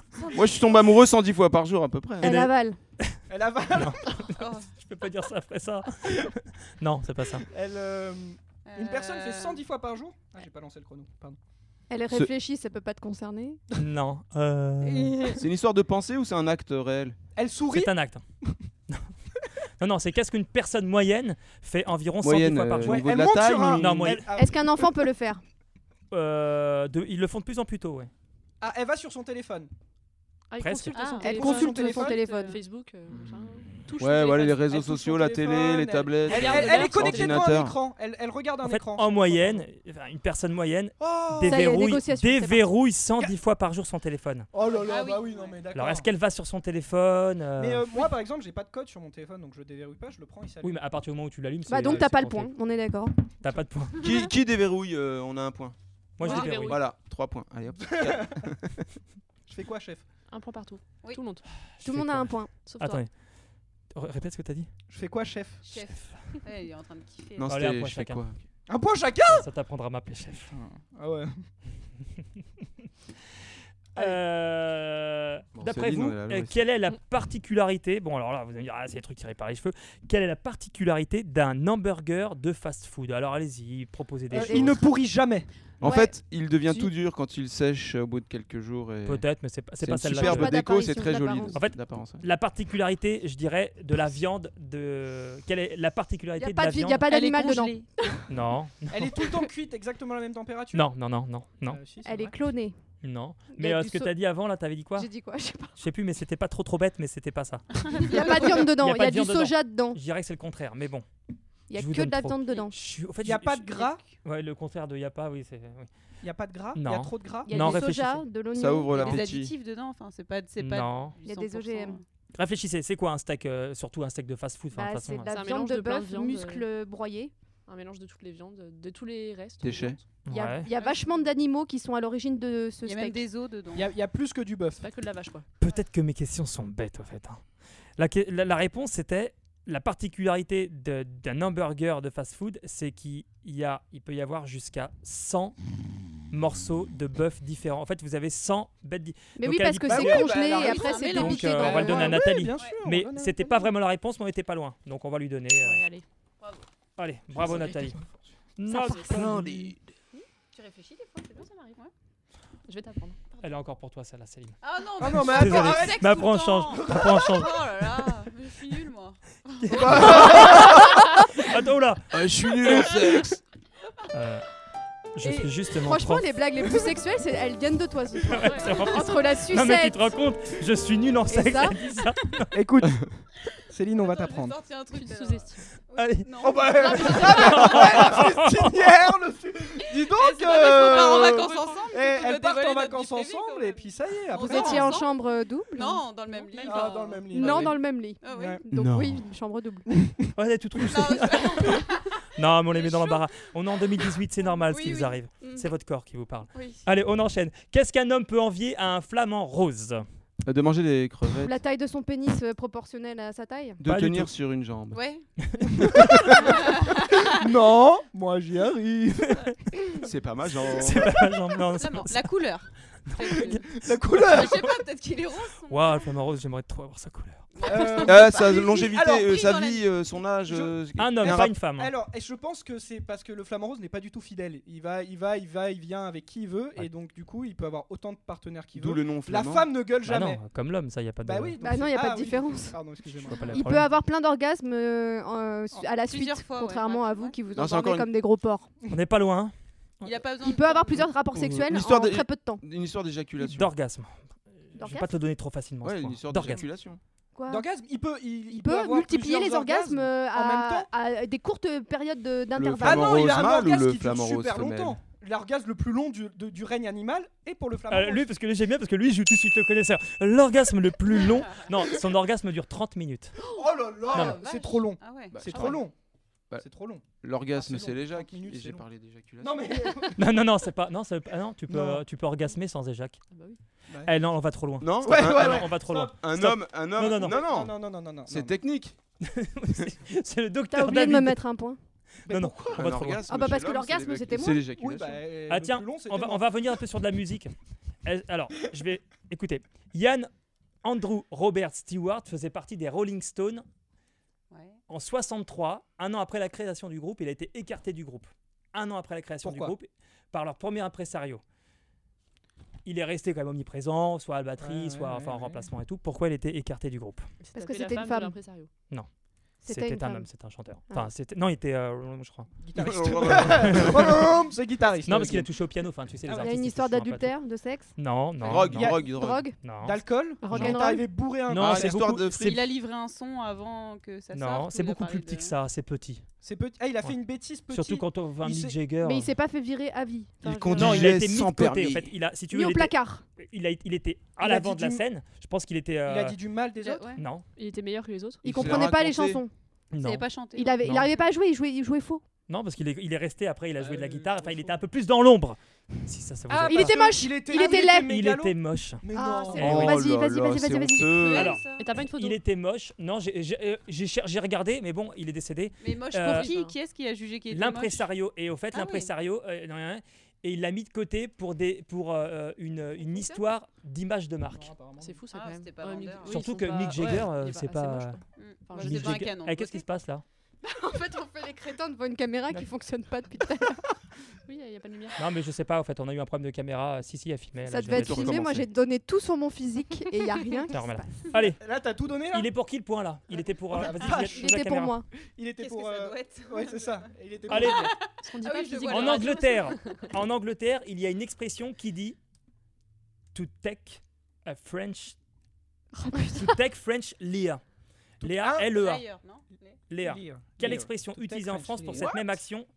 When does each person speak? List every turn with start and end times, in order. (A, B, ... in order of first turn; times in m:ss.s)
0:00.3-0:02.4 A
0:02.2-0:02.8 B
0:02.2-0:03.2 C
0:03.3-0:04.2 D
0:03.7-0:07.5 C
0:04.3-0:04.7 E
0:07.5-0:11.4 D
0:08.7-0:09.6 E
0:11.9-0:13.6 B
0:13.8-0:15.4 C
0:14.8-0:15.4 B
0:15.3-0:17.2 A
0:17.4-0:17.9 D
0:17.7-0:18.2 C
0:19.8-0:24.3 C
0:22.2-0:24.3 A
0:22.8-0:24.8 D
0:24.4-0:25.4 B
0:26.1-0:28.1 C
0:28.6-0:29.7 D
0:30.5-0:34.7 F
0:30.6-0:31.1 C
0:30.9-0:31.3 E
0:31.2-0:32.6 B
0:31.3-0:32.2 D
0:33.1-0:37.8 A
0:34.3-0:39.6 D
0:36.3-0:37.4 F
0:38.6-0:44.5 C
0:41.0-0:41.9 D
0:41.4-0:42.7 B
0:44.5-0:46.1 D
0:44.6-0:45.6 E
0:45.8-0:48.1 C
0:47.6-0:50.8 D
0:50.6-0:52.5 C
0:51.7-0:53.2 B
0:53.4-0:54.2 C
0:54.0-0:55.8 A
0:56.2-0:56.8 C
0:56.2-0:56.8 E
0:56.2-0:56.8 F
0:56.5-0:58.9 A
0:57.9-0:58.4 D
0:59.5-1:00.0 D
1:00.3-1:01.4 F
1:01.8-1:03.1 C
1:01.8-1:03.0 B
1:02.6-1:03.0 F
1:03.9-1:04.7 C
1:04.9-1:05.7 D
1:05.6-1:07.6 E
1:07.4-1:08.4 A
1:07.5-1:08.2 C
1:08.7-1:09.5 D
1:09.3-1:10.5 C
1:10.5-1:11.4 D
1:14.0-1:24.8 C
1:15.6-1:16.6 A
1:24.3-1:25.5 D
1:24.3-1:24.8 B
1:25.8-1:29.2 A
1:25.8-1:26.9 B
1:29.0-1:30.6 C
1:29.8-1:32.3 A
1:30.2-1:31.6 B
1:31.6-1:37.2 C
1:36.4-1:38.3 B
1:37.1-1:38.1 E
1:38.3-1:39.3 C
1:38.9-1:40.9 D
1:40.7-1:41.8 C
1:41.7-1:42.4 D
1:42.0-1:42.8 B
1:43.0-1:45.1 C
1:43.5-1:44.1 B
1:45.0-1:45.8 B
1:45.8-1:51.1 C
1:47.9-1:50.0 B
1:51.7-1:52.8 B
1:51.7-1:55.9 C
1:53.2-1:54.1 D
1:56.2-1:57.8 D
1:56.8-1:58.2 C
1:57.5-1:59.2 B
1:58.6-1:59.5 A
1:58.9-2:02.0 E
2:00.6-2:01.2 C
2:01.2-2:02.0 B
2:02.3-2:05.3 C
2:04.7-2:07.3 B
2:05.3-2:06.6 F
2:07.7-2:10.0 F
2:09.6-2:10.0 A
2:10.3-2:10.7 C
2:10.3-2:13.2 B
2:10.8-2:11.1 E
2:12.8-2:13.9 E
2:13.7-2:14.9 D
2:14.8-2:15.4 F
2:15.6-2:17.4 C
2:18.0-2:25.6 C
2:26.3-2:35.8 C
2:29.4-2:32.2 B
2:29.9-2:33.7 D
2:30.5-2:32.0 E
2:35.6-2:36.0 F
2:36.4-2:36.7 E
2:37.0-2:38.0 C
2:37.5-2:37.7 D
2:38.6-2:39.7 C
2:38.7-2:39.2 B
2:39.1-2:39.8 A
2:40.5-2:41.9 E
2:42.7-2:43.2 F
2:43.4-2:44.6 C
2:44.6-2:50.8 E
2:45.0-2:47.3 D
2:45.1-2:47.8 C
2:49.6-2:53.0 C
2:49.8-2:50.8 A
2:49.9-2:50.5 D
2:52.1-2:53.4 A
2:54.1-2:54.5 C
2:55.2-2:56.3 C
2:55.2-3:00.1 B
2:58.3-3:02.6 C
2:58.3-2:58.9 F
3:01.3-3:01.9 B
3:02.5-3:03.1 D
3:03.6-3:04.6 D
3:04.0-3:08.2 E
3:04.9-3:05.7 F
3:06.0-3:06.3 C
3:06.4-3:14.9 D
3:06.7-3:07.8 F
3:07.3-3:09.0 C
3:09.8-3:15.2 E
3:10.7-3:11.9 F
3:14.3-3:16.0 B
3:15.7-3:18.6 E
3:16.3-3:17.6 F
3:16.6-3:18.6 D
3:17.3-3:19.9 B
3:18.7-3:19.3 A
3:20.0-3:20.3 D
3:20.4-3:30.0 C
3:20.8-3:25.2 E
3:26.5-3:26.9 E
3:30.4-3:31.6 A
3:31.4-3:33.8 B
3:33.8-3:35.0 A
3:33.8-3:34.3 C
3:34.9-3:35.3 E
3:35.5-3:36.4 C
3:35.8-3:39.5 D
3:36.4-3:37.4 E
3:40.0-3:41.1 A
3:40.7-3:42.3 C
3:41.7-3:46.2 E
3:43.1-3:43.6 C
3:43.3-3:44.8 D
3:45.7-3:47.5 C
3:47.6-3:49.9 E
3:47.6-3:49.4 D
3:48.0-3:51.5 A
3:50.5-4:00.4 D
3:51.0-3:51.9 C
3:58.8-3:59.7 A
4:00.0-4:01.6 C
4:01.2-4:03.8 D
4:01.6-4:02.8 B
4:03.2-4:03.9 C
4:03.5-4:08.7 B
4:06.0-4:07.4 E
4:07.6-4:08.1 A
4:08.9-4:10.2 C
4:10.0-4:11.1 E
4:10.4-4:12.6 B
4:11.4-4:13.7 A
4:13.4-4:14.1 C
4:14.7-4:16.6 C
4:14.8-4:15.1 B
4:15.8-4:17.0 A
4:17.4-4:17.7 B
4:17.5-4:20.9 D
4:18.5-4:23.3 B
4:22.6-4:25.0 A
4:22.8-4:28.3 D
4:27.9-4:33.4 C
4:33.4-4:35.9 D
4:34.1-4:35.7 E
4:34.1-4:34.4 C
4:35.3-4:35.9 A
4:36.5-4:40.0 A
4:36.6-4:38.8 D
4:39.4-4:40.2 D
4:40.2-4:43.2 C
4:41.7-4:42.0 D
4:43.3-4:43.6 F
4:44.0-4:47.5 C
4:44.8-4:47.8 A
4:45.0-4:46.2 D
4:47.1-4:48.6 D
4:48.3-4:49.0 A
4:49.2-4:51.4 C
4:50.7-4:51.8 B
4:52.3-4:53.0 D
4:52.3-4:53.2 C
4:52.7-4:55.2 A
4:53.3-4:54.6 B
4:54.7-4:56.5 D
4:55.5-4:57.5 C
4:58.0-5:00.3 C
5:00.8-5:03.6 C
5:04.5-5:04.8 E
5:04.9-5:11.4 C
5:09.4-5:09.8 D
5:12.8-5:17.3 C
5:14.6-5:15.7 D
5:17.4-5:18.7 F
5:17.5-5:18.4 B
5:19.6-5:20.3 B
5:19.7-5:22.5 C
5:22.6-5:25.5 D
5:22.8-5:24.0 A
5:23.5-5:24.3 C
5:25.0-5:27.3 C
5:26.3-5:26.5 D
5:26.3-5:28.0 B
5:28.0-5:29.1 C
5:28.4-5:29.1 D
5:28.4-5:29.4 A
5:29.0-5:29.6 B
5:29.6-5:30.8 C
5:29.8-5:32.1 D
5:30.4-5:31.0 F
5:30.5-5:31.1 B
5:31.4-5:32.6 C
5:31.5-5:32.6 A
5:32.3-5:35.5 E
5:34.3-5:36.3 C
5:36.4-5:38.8 D
5:37.7-5:39.3 C
5:39.0-5:40.7 B
5:40.4-5:42.1 A
5:40.4-5:40.9 F
5:40.7-5:46.4 C
5:42.5-5:43.2 B
5:44.4-5:45.0 D
5:46.0-5:47.2 D
5:46.8-5:47.2 E
5:47.2-5:47.4 C
5:47.6-5:48.5 F
5:48.4-5:49.4 A
5:48.4-5:49.5 B
5:49.9-5:50.2 C
5:50.0-5:50.8 E
5:50.6-5:52.2 B
5:50.8-5:51.1 C
5:52.5-6:00.0 C
5:53.8-5:54.8 D
5:56.5-5:59.9 D
5:56.7-5:58.1 B
5:59.1-6:01.3 B
5:59.6-6:01.6 A
6:01.1-6:01.9 E
6:01.3-6:06.5 C
6:01.8-6:02.4 F
6:05.8-6:08.1 E
6:06.3-6:06.7 F
6:07.5-6:14.7 C
6:08.7-6:09.1 E
6:13.0-6:13.4 B
6:14.5-6:15.2 D
6:15.0-6:19.3 F
6:15.3-6:16.5 E
6:16.2-6:18.2 C
6:18.4-6:19.9 E
6:18.8-6:20.2 C
6:20.6-6:23.9 B
6:24.5-6:25.2 F
6:25.2-6:28.4 C
6:27.7-6:31.2 B
6:27.9-6:28.7 A
6:30.7-6:31.6 C
6:31.3-6:32.5 D
6:32.3-6:35.0 C
6:33.7-6:34.6 D
6:34.2-6:35.1 B
6:35.2-6:38.1 D
6:35.6-6:40.0 E
6:37.5-6:38.0 C
6:38.1-6:40.0 F
6:38.9-6:42.2 C
6:43.3-6:45.2 C
6:46.1-6:46.6 B
6:46.3-6:47.6 C
6:48.2-6:48.8 D
6:48.2-6:49.0 C
6:48.6-6:49.8 E
6:49.9-6:52.7 C
6:50.0-6:52.2 D